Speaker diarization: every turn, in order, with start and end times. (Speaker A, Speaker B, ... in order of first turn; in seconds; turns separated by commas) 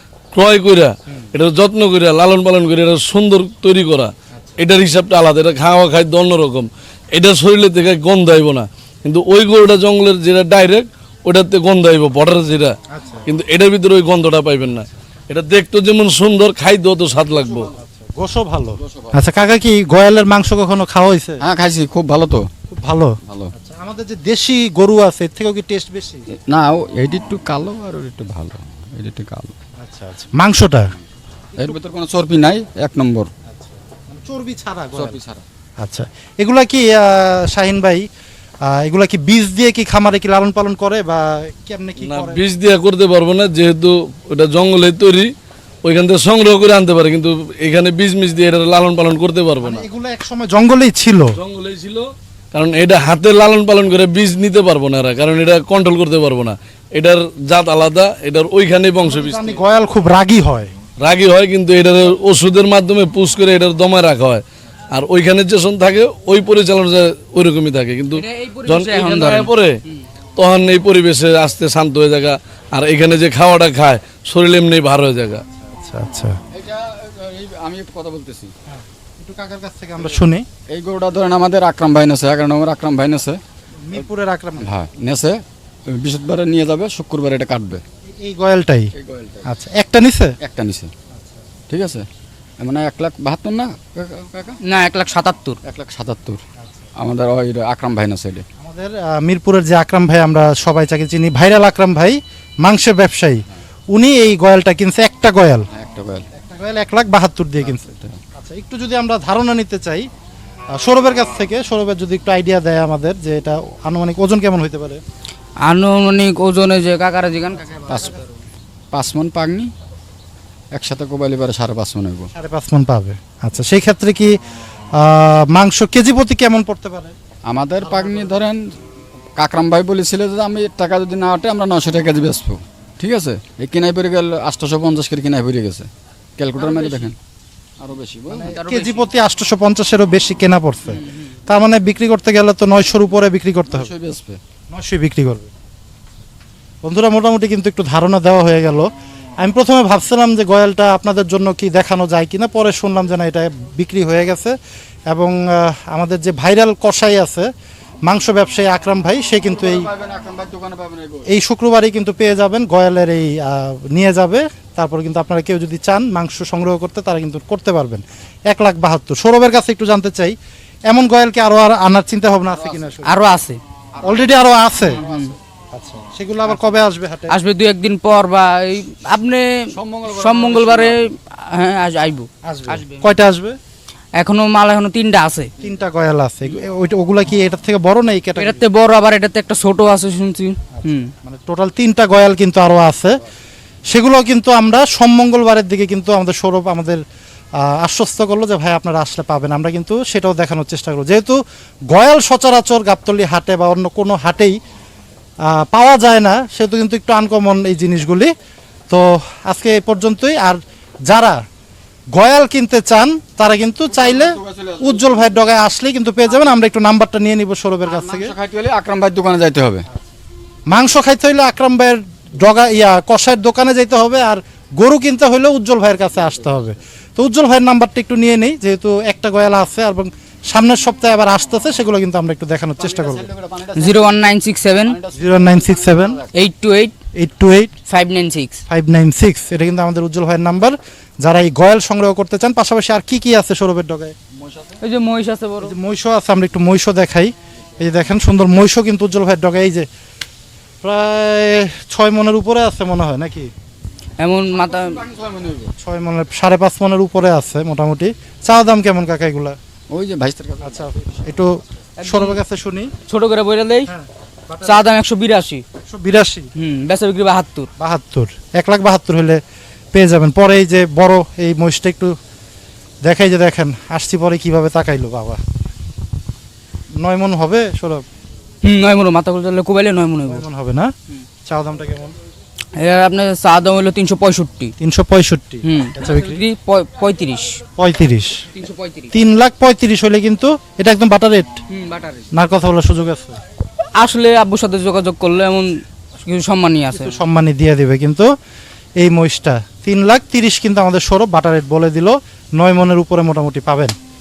Speaker A: 0.3-12.7, Speaker B: 4.3-4.6, Speaker B: 12.9-13.2, Speaker A: 13.3-17.7, Speaker C: 17.3-17.7, Speaker B: 17.8-21.4, Speaker C: 18.8-19.2, Speaker C: 21.4-22.5, Speaker B: 22.7-26.2, Speaker C: 23.3-23.5, Speaker C: 26.5-29.5, Speaker B: 29.8-30.9, Speaker C: 31.6-33.3, Speaker B: 33.5-35.1, Speaker C: 34.9-35.4, Speaker B: 35.8-38.0, Speaker B: 38.6-42.4, Speaker A: 42.0-45.3, Speaker A: 45.8-49.8, Speaker B: 49.6-51.4, Speaker A: 51.4-59.5, Speaker B: 59.0-60.7, Speaker A: 61.0-69.8, Speaker D: 68.1-69.5, Speaker A: 70.3-75.4, Speaker B: 75.6-76.4, Speaker C: 76.5-78.5, Speaker B: 78.7-80.5, Speaker C: 80.7-83.4, Speaker B: 83.8-84.8, Speaker C: 84.6-87.8, Speaker B: 88.1-88.9, Speaker C: 88.9-89.5, Speaker B: 89.4-90.4, Speaker C: 90.4-90.9, Speaker C: 91.7-92.1, Speaker C: 92.6-94.6, Speaker D: 94.6-95.6, Speaker C: 95.6-96.4, Speaker C: 97.0-98.4, Speaker B: 98.6-103.4, Speaker B: 103.9-105.7, Speaker C: 105.7-106.3, Speaker B: 106.3-110.0, Speaker C: 107.6-108.2, Speaker B: 110.8-115.0, Speaker D: 115.7-118.3, Speaker C: 117.8-118.2, Speaker C: 118.9-119.7, Speaker C: 120.7-122.3, Speaker B: 122.3-124.3, Speaker B: 124.9-127.1, Speaker C: 127.5-128.7, Speaker C: 129.4-137.2, Speaker D: 136.6-137.1, Speaker C: 137.8-138.5, Speaker B: 138.3-143.9, Speaker D: 138.4-139.1, Speaker D: 140.9-141.3, Speaker C: 143.7-144.4, Speaker B: 144.7-145.5, Speaker B: 146.8-154.6, Speaker B: 155.1-157.5, Speaker B: 158.1-159.9, Speaker C: 159.5-161.3, Speaker B: 161.3-170.3, Speaker B: 170.9-173.3, Speaker C: 172.5-173.0, Speaker D: 173.1-173.6, Speaker C: 173.9-174.3, Speaker B: 174.0-175.0, Speaker D: 174.8-175.3, Speaker C: 174.9-175.3, Speaker B: 175.7-177.3, Speaker D: 177.3-179.5, Speaker C: 179.7-181.0, Speaker D: 180.1-183.1, Speaker B: 182.4-183.6, Speaker D: 184.2-185.5, Speaker B: 185.6-188.6, Speaker D: 188.4-191.1, Speaker B: 190.8-193.2, Speaker B: 193.9-197.0, Speaker B: 197.6-201.4, Speaker B: 201.9-204.6, Speaker B: 205.4-208.3, Speaker B: 208.9-211.4, Speaker B: 212.1-218.3, Speaker C: 213.9-215.5, Speaker C: 217.8-219.8, Speaker B: 220.7-233.3, Speaker C: 232.8-234.2, Speaker D: 233.8-235.0, Speaker C: 234.8-236.3, Speaker B: 235.2-236.2, Speaker D: 236.3-236.9, Speaker B: 237.1-237.8, Speaker D: 237.9-238.6, Speaker B: 238.7-244.1, Speaker C: 244.4-244.8, Speaker D: 244.8-245.7, Speaker B: 245.6-249.9, Speaker B: 250.8-253.5, Speaker D: 254.2-255.0, Speaker C: 254.5-255.7, Speaker B: 255.8-259.6, Speaker C: 259.9-261.1, Speaker B: 260.6-262.9, Speaker D: 262.0-262.4, Speaker D: 263.1-263.9, Speaker B: 263.9-264.8, Speaker D: 264.6-265.6, Speaker B: 265.8-266.5, Speaker D: 266.6-267.7, Speaker B: 267.8-269.4, Speaker B: 269.9-272.1, Speaker B: 273.0-275.4, Speaker B: 277.0-278.0, Speaker D: 278.6-280.4, Speaker B: 280.3-280.9, Speaker B: 281.4-282.1, Speaker D: 282.8-284.7, Speaker B: 284.8-286.4, Speaker D: 285.6-287.6, Speaker B: 287.8-288.4, Speaker D: 288.5-289.1, Speaker B: 289.1-291.5, Speaker D: 291.7-292.3, Speaker B: 292.3-293.4, Speaker D: 293.9-295.7, Speaker D: 296.2-297.2, Speaker B: 296.9-298.3, Speaker B: 299.0-303.9